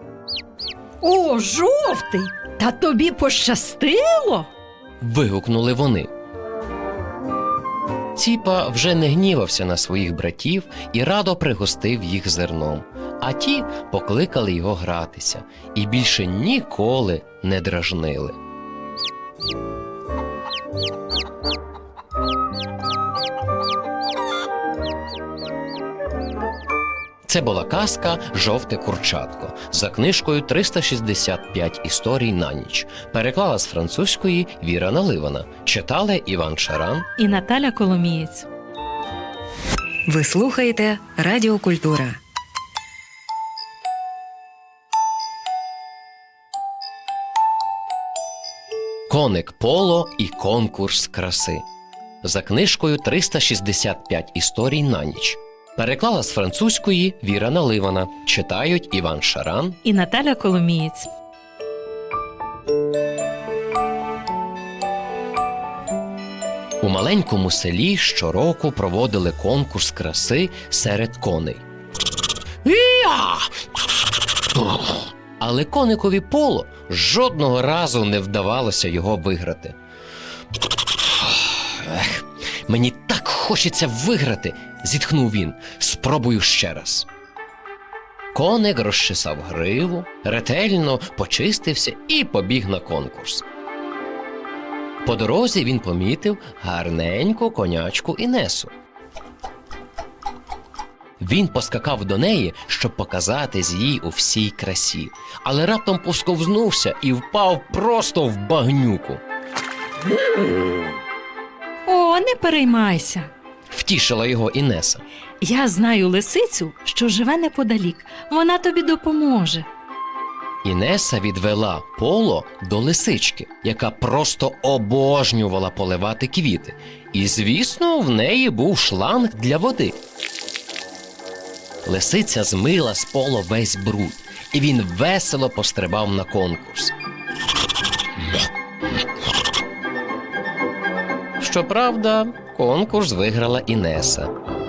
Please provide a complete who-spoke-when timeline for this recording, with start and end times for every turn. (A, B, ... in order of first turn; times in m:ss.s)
0:01.0-0:04.5 A
0:05.0-0:06.1 B
0:08.1-0:18.4 B
0:27.2-0:37.1 B
0:37.2-0:38.4 A
0:40.1-0:42.2 C
0:49.1-0:51.6 B
0:52.2-0:59.8 B
0:59.8-1:01.1 A
1:06.8-1:11.6 B
1:12.6-1:13.5 B
1:14.6-1:19.8 B
1:21.2-1:27.1 B
1:28.3-1:33.4 B
1:35.0-1:38.7 B
1:41.2-1:49.2 B
1:51.9-1:53.3 A
1:53.7-1:55.0 B
1:55.4-1:59.7 A
2:00.6-2:10.0 B
2:11.8-2:16.9 B
2:21.4-2:24.3 B